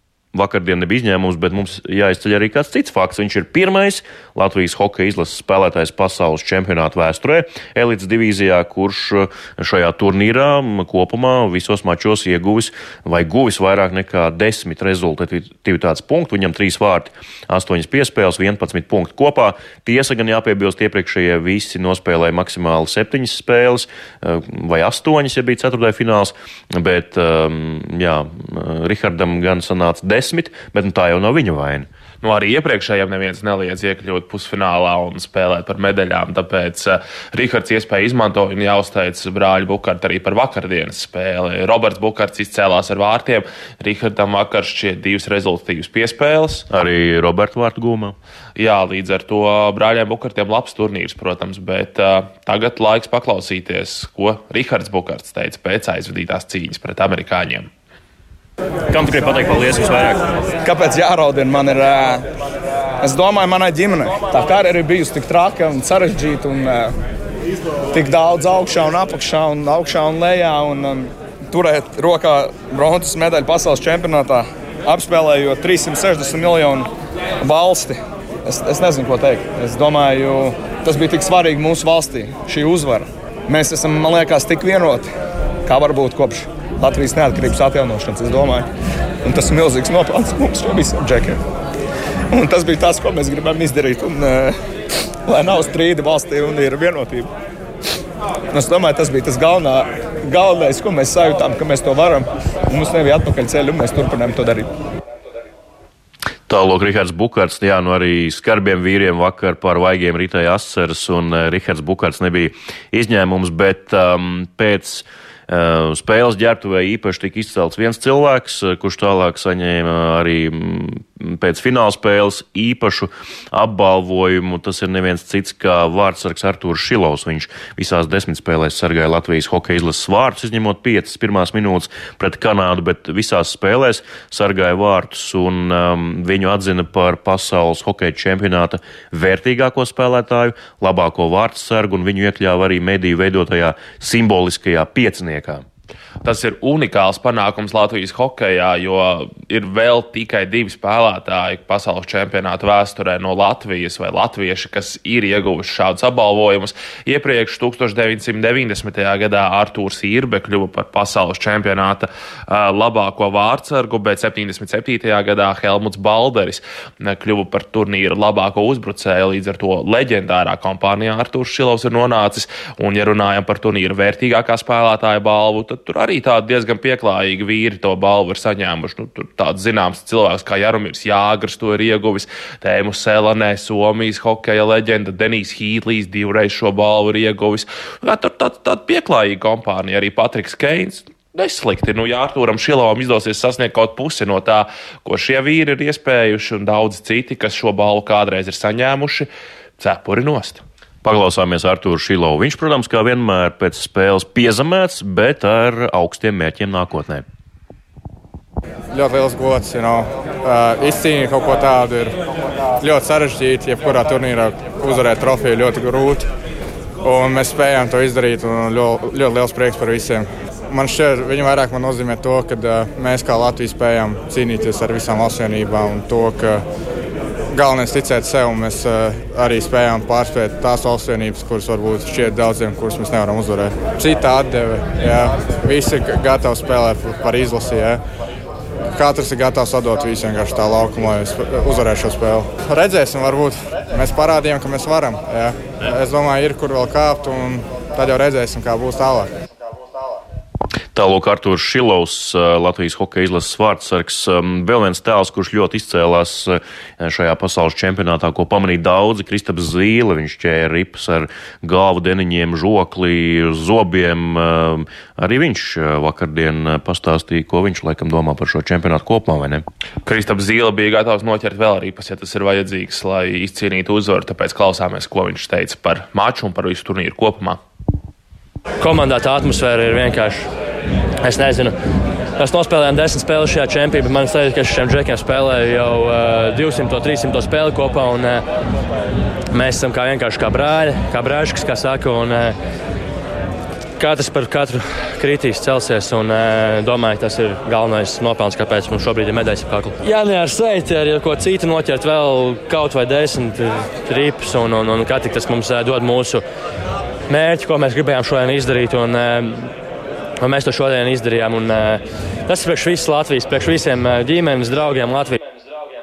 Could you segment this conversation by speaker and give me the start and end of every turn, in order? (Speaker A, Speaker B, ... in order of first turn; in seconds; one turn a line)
Speaker A: 0.3-31.9
Speaker B: 32.2-46.6
Speaker A: 46.7-48.2
Speaker B: 48.6-57.7
Speaker A: 58.9-60.3
Speaker C: 60.6-62.3
Speaker C: 63.0-67.0
Speaker C: 67.9-76.9
Speaker C: 77.4-85.1
Speaker C: 85.7-88.7
Speaker C: 89.2-91.4
Speaker C: 92.3-94.5
Speaker C: 95.3-97.3
Speaker C: 98.5-104.7
Speaker A: 106.5-145.6
Speaker B: 146.2-199.3
Speaker B: 199.8-200.6
Speaker A: 201.0-207.2
Speaker D: 208.9-212.2
Speaker D: 212.8-216.3
Speaker D: 217.0-226.6
Speaker D: 227.5-238.0
Speaker D: 238.9-249.3
Speaker A: 250.9-269.6
Speaker B: 270.1-277.6
Speaker E: 278.8-280.5
Speaker E: 281.2-281.8
Speaker E: 282.4-288.4
Speaker E: 289.5-292.6
Speaker E: 294.0-306.4
Speaker E: 307.3-309.7
Speaker E: 310.4-315.5